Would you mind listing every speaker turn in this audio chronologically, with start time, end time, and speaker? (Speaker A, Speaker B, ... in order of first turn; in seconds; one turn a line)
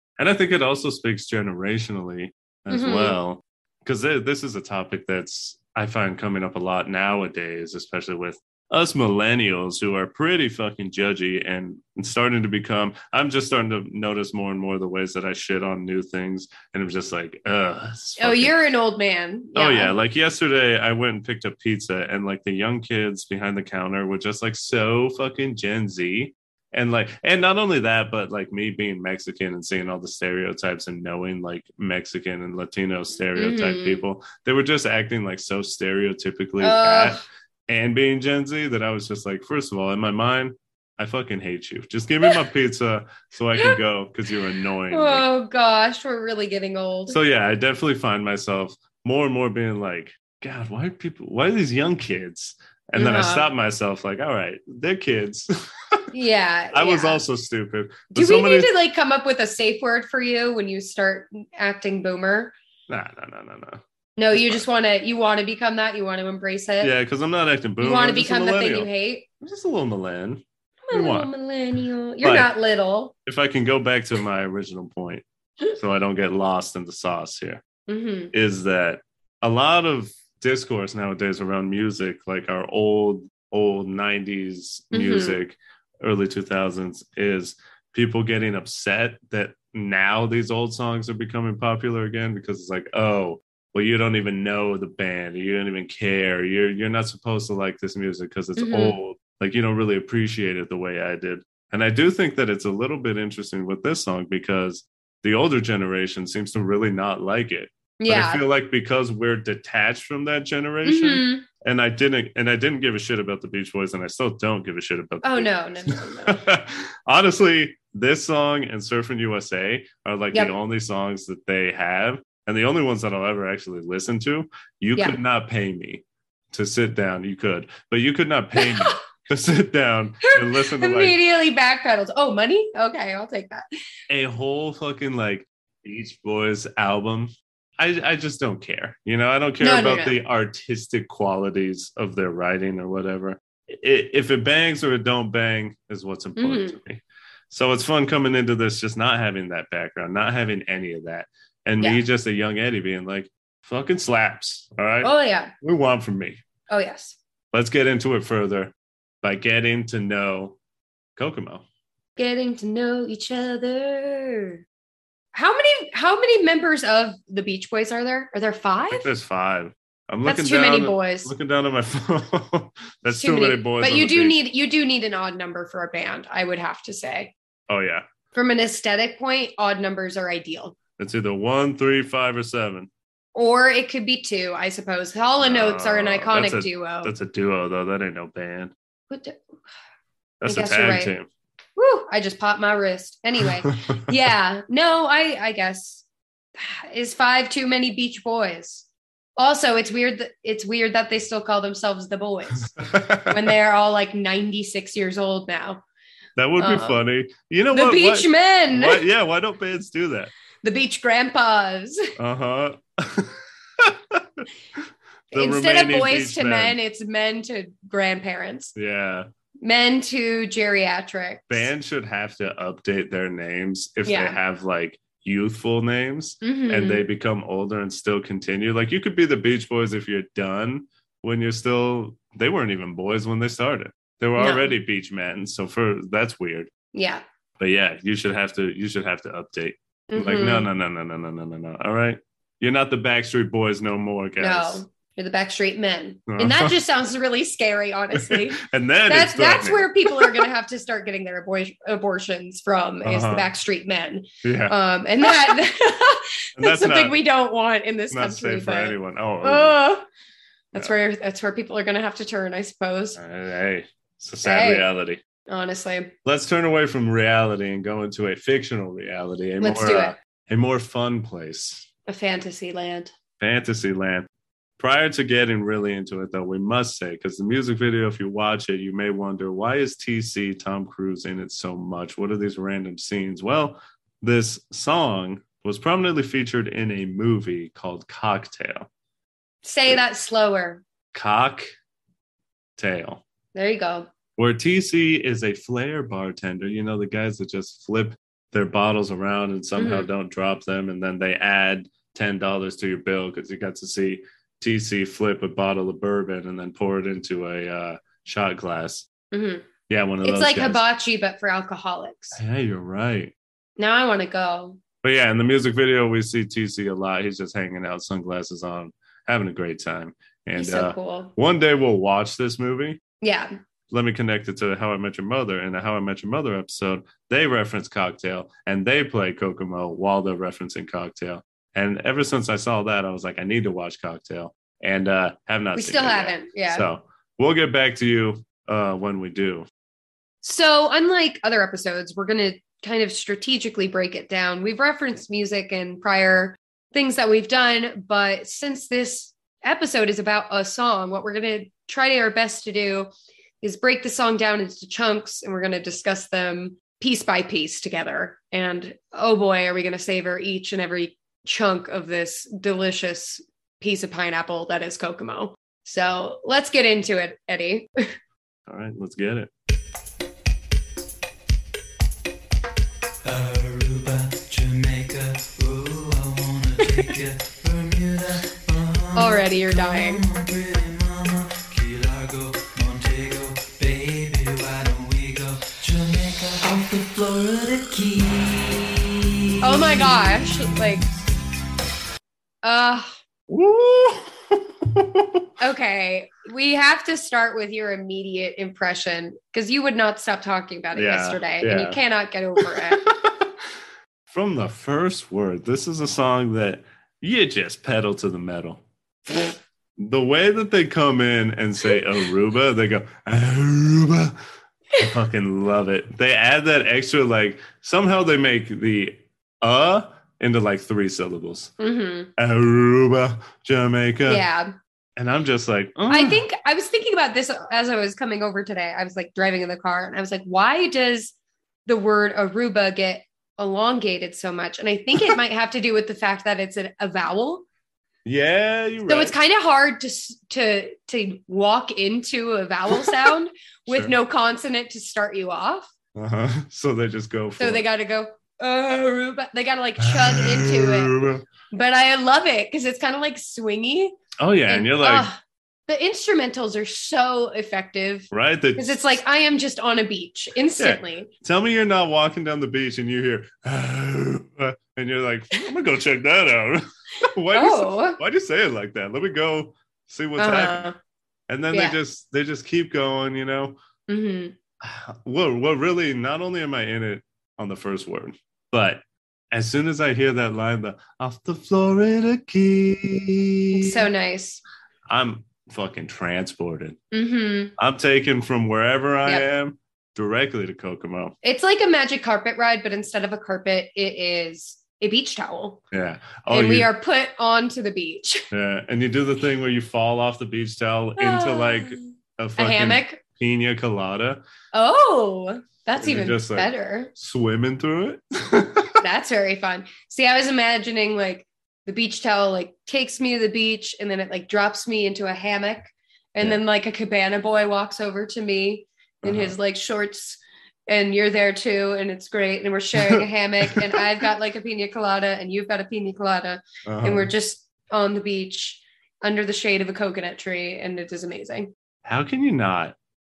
Speaker A: 0.2-18.6
Speaker B: 2.7-3.2
Speaker B: 18.2-19.9
Speaker A: 19.5-45.2
Speaker B: 33.4-34.0
Speaker B: 36.6-37.2
Speaker B: 44.9-47.2
Speaker A: 47.1-56.0
Speaker B: 53.0-53.5
Speaker B: 56.1-57.2
Speaker A: 56.7-58.7
Speaker B: 58.1-62.5
Speaker A: 62.9-63.8
Speaker B: 64.2-66.9
Speaker A: 64.3-64.6
Speaker A: 66.8-68.9
Speaker B: 67.8-69.2
Speaker A: 69.4-71.3
Speaker B: 70.8-73.1
Speaker A: 72.2-72.5
Speaker A: 73.2-77.6
Speaker B: 77.9-78.3
Speaker A: 78.3-131.2
Speaker B: 84.9-85.4
Speaker B: 98.5-99.0
Speaker B: 108.0-108.4
Speaker B: 110.8-111.5
Speaker B: 115.2-116.4
Speaker B: 128.6-129.0
Speaker B: 130.2-133.6
Speaker A: 134.1-156.4
Speaker B: 139.6-140.2
Speaker B: 146.4-146.8
Speaker B: 155.0-155.5
Speaker B: 156.7-157.2
Speaker A: 157.5-160.6
Speaker A: 161.2-161.6
Speaker B: 162.2-164.6
Speaker B: 165.3-169.1
Speaker A: 168.9-174.4
Speaker B: 170.2-171.3
Speaker B: 173.1-177.3
Speaker A: 177.7-178.1
Speaker B: 178.3-180.8
Speaker A: 181.0-182.9
Speaker B: 183.3-187.1
Speaker A: 185.4-188.7
Speaker B: 189.1-189.4
Speaker A: 190.4-191.3
Speaker B: 190.4-191.1
Speaker B: 191.8-196.0
Speaker A: 193.6-194.1
Speaker B: 196.6-198.8
Speaker B: 199.4-205.8
Speaker A: 202.8-203.5
Speaker A: 206.4-210.3
Speaker B: 206.6-206.9
Speaker B: 207.7-209.0
Speaker B: 210.6-212.1
Speaker A: 212.2-214.8
Speaker A: 215.3-216.8
Speaker B: 215.3-218.7
Speaker A: 218.8-219.3
Speaker B: 219.6-221.7
Speaker A: 221.5-236.7
Speaker B: 224.1-224.4
Speaker B: 226.4-227.0
Speaker B: 234.4-234.7
Speaker B: 236.9-237.2
Speaker A: 237.6-244.8
Speaker B: 240.1-240.7
Speaker B: 244.4-260.0
Speaker A: 246.3-246.7
Speaker A: 248.2-250.4
Speaker A: 253.0-253.5
Speaker A: 254.4-254.7
Speaker A: 256.6-257.2
Speaker A: 258.1-259.8
Speaker B: 260.7-263.2
Speaker A: 263.2-265.2
Speaker B: 264.4-264.9
Speaker B: 265.5-266.1
Speaker A: 266.2-271.9
Speaker B: 269.6-270.1
Speaker B: 272.1-273.1
Speaker A: 273.4-274.3
Speaker A: 274.8-288.9
Speaker B: 289.6-290.8
Speaker A: 291.1-291.7
Speaker A: 292.8-293.2
Speaker B: 293.5-294.1
Speaker A: 294.4-309.1
Speaker B: 299.8-300.1
Speaker B: 309.3-309.7
Speaker A: 309.9-310.8
Speaker B: 310.2-312.4
Speaker A: 312.4-313.3
Speaker B: 313.8-314.8
Speaker A: 315.0-323.0
Speaker B: 320.6-321.3
Speaker B: 323.2-323.5
Speaker A: 323.9-339.7
Speaker B: 335.7-336.9
Speaker B: 340.4-368.0
Speaker A: 368.7-369.5
Speaker C: 373.2-391.1
Speaker B: 379.1-380.2
Speaker B: 389.6-391.1
Speaker B: 392.6-393.1
Speaker A: 393.5-395.4
Speaker B: 395.6-403.1
Speaker A: 400.9-402.0
Speaker A: 402.6-403.7
Speaker A: 404.3-414.4
Speaker A: 415.0-421.7
Speaker B: 421.8-422.3
Speaker A: 422.4-424.4
Speaker B: 424.2-424.7
Speaker A: 425.2-426.4
Speaker B: 426.1-431.3
Speaker B: 431.8-437.6
Speaker A: 438.2-439.3
Speaker B: 439.1-445.9
Speaker A: 443.0-443.3
Speaker A: 443.9-444.1
Speaker A: 446.1-447.9
Speaker B: 447.6-461.3
Speaker A: 450.0-451.4
Speaker A: 454.4-455.3
Speaker A: 458.3-459.2
Speaker A: 460.8-470.9
Speaker B: 467.5-468.2
Speaker B: 470.4-470.9
Speaker A: 471.5-473.8
Speaker B: 471.7-472.0
Speaker B: 474.1-474.6
Speaker A: 474.8-484.1
Speaker B: 483.7-484.6
Speaker A: 485.1-487.0
Speaker B: 487.1-487.7
Speaker A: 487.8-491.3
Speaker B: 491.4-495.8
Speaker A: 495.9-496.9
Speaker B: 496.5-498.4
Speaker A: 498.5-504.4
Speaker B: 501.2-503.2
Speaker B: 504.7-507.1
Speaker A: 506.0-509.0
Speaker B: 509.0-531.7
Speaker A: 519.2-519.5
Speaker A: 523.0-524.0
Speaker A: 526.9-527.3
Speaker A: 532.0-533.0